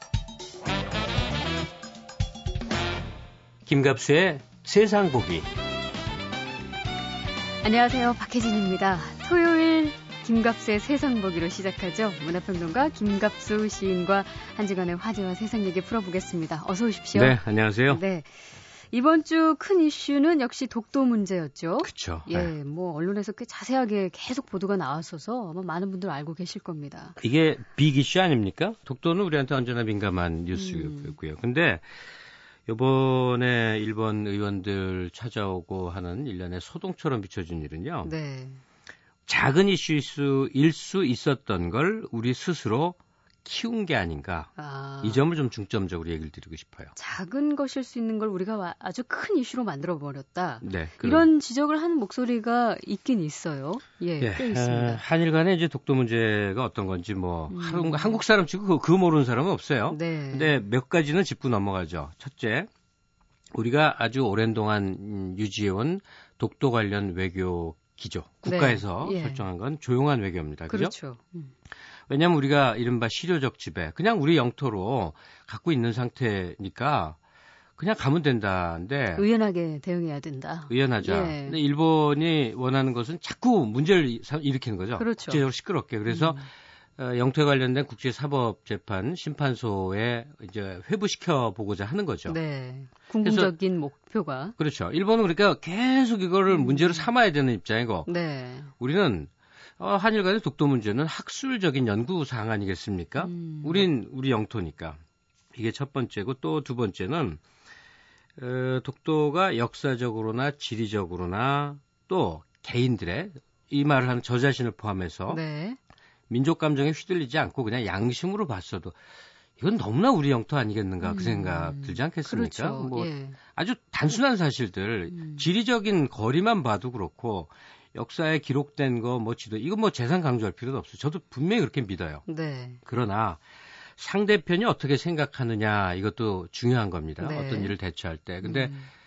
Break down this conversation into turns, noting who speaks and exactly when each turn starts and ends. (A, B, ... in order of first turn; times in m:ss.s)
0:03.7-0:05.5 A
0:07.6-0:17.4 B
0:17.1-0:18.0 A
0:17.9-0:18.4 B
0:18.9-0:27.2 B
0:21.8-0:22.5 A
0:27.2-0:31.8 A
0:30.6-0:31.2 B
0:32.7-0:38.1 A
0:38.0-0:38.6 B
0:39.3-0:46.9 A
0:44.6-0:45.2 B
0:47.0-0:55.0 B
0:50.6-0:51.3 A
0:54.2-1:02.7 A
0:57.5-0:58.2 B
0:59.9-1:00.6 B
1:03.5-1:10.9 A
1:08.4-1:09.4 B
1:10.7-1:11.5 B
1:12.1-1:17.2 A
1:17.8-1:19.3 A
1:19.2-1:21.6 B
1:20.7-1:32.4 A
1:25.0-1:25.4 B
1:26.1-1:26.5 B
1:32.3-1:34.6 B
1:33.2-1:33.5 A
1:34.6-1:38.1 A
1:36.5-1:37.1 B
1:38.1-1:38.7 B
1:38.8-1:45.0 A
1:43.2-1:43.9 B
1:45.5-1:47.4 A
1:48.4-1:55.4 A
1:55.3-1:55.8 B
1:56.3-1:59.0 A
1:59.6-2:12.2 A
2:01.0-2:03.4 B
2:05.1-2:05.5 B
2:12.3-2:12.8 B
2:12.8-2:13.4 A
2:14.0-2:18.8 A
2:17.2-2:17.7 B
2:18.4-2:18.9 B